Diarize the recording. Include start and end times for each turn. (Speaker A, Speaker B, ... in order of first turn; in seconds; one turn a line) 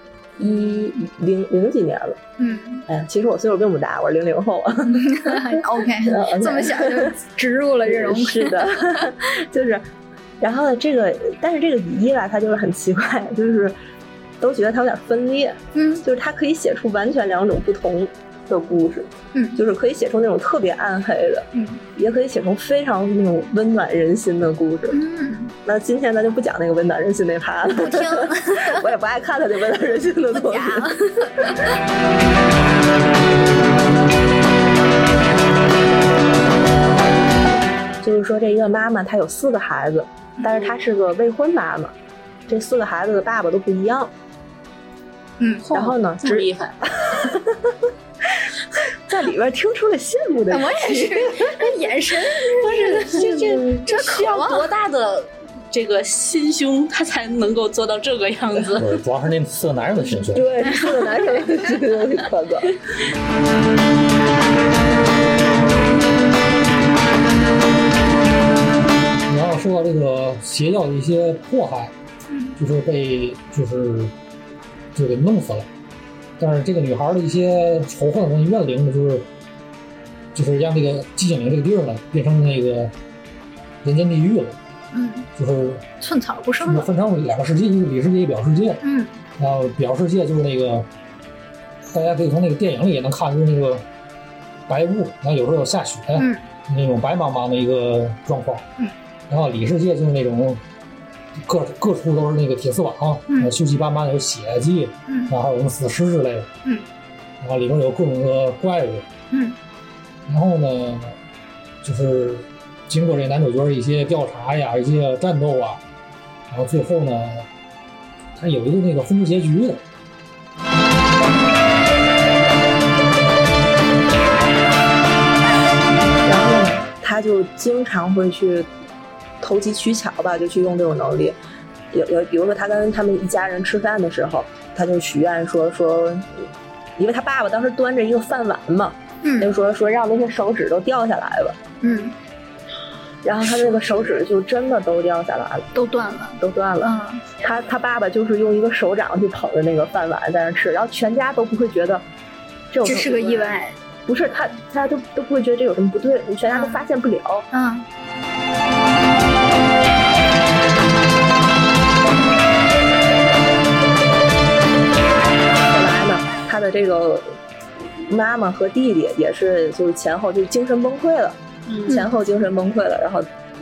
Speaker A: 0.4-2.2
Speaker B: 2.4-2.9
Speaker A: 2.9-5.4
Speaker B: 4.9-9.0
Speaker A: 6.0-7.2
Speaker A: 7.9-9.8
Speaker A: 10.4-13.8
Speaker A: 14.4-25.0
Speaker B: 15.7-16.0
Speaker B: 21.5-21.8
Speaker B: 24.9-25.5
Speaker A: 25.6-31.0
Speaker B: 27.7-28.9
Speaker B: 30.3-31.7
Speaker A: 38.0-41.9
Speaker B: 40.4-40.7
Speaker A: 42.5-44.1
Speaker B: 45.4-45.7
Speaker C: 45.6-46.8
Speaker A: 45.7-47.6
Speaker A: 49.1-51.4
Speaker B: 50.5-54.7
Speaker C: 52.6-59.0
Speaker A: 53.2-53.9
Speaker D: 58.7-60.5
Speaker A: 60.3-62.8
Speaker D: 69.3-71.9
Speaker B: 72.3-72.6
Speaker D: 72.6-74.1
Speaker D: 75.0-75.7
Speaker D: 76.4-79.3
Speaker D: 80.3-82.9
Speaker D: 83.8-84.6
Speaker B: 84.9-85.3
Speaker D: 85.4-85.8
Speaker B: 86.0-86.9
Speaker D: 86.6-88.8
Speaker B: 88.8-89.2
Speaker D: 89.4-90.9
Speaker D: 91.9-93.9
Speaker D: 94.7-98.7
Speaker B: 96.2-96.4
Speaker D: 99.3-100.6
Speaker D: 101.4-106.5
Speaker B: 103.3-103.5
Speaker B: 105.1-105.3
Speaker D: 107.4-109.1
Speaker B: 109.3-109.6
Speaker D: 110.3-111.2
Speaker D: 111.8-115.8
Speaker D: 116.5-117.5
Speaker D: 118.4-119.8
Speaker A: 126.2-128.7
Speaker A: 129.4-131.4
Speaker A: 131.9-141.6
Speaker B: 139.2-139.5
Speaker B: 141.8-142.2
Speaker A: 143.2-145.7
Speaker B: 145.8-147.4
Speaker A: 146.4-152.1
Speaker A: 152.7-157.5
Speaker B: 152.8-153.8
Speaker B: 156.5-156.8
Speaker B: 157.5-157.9
Speaker A: 165.7-167.3
Speaker A: 168.1-173.3
Speaker C: 171.7-172.0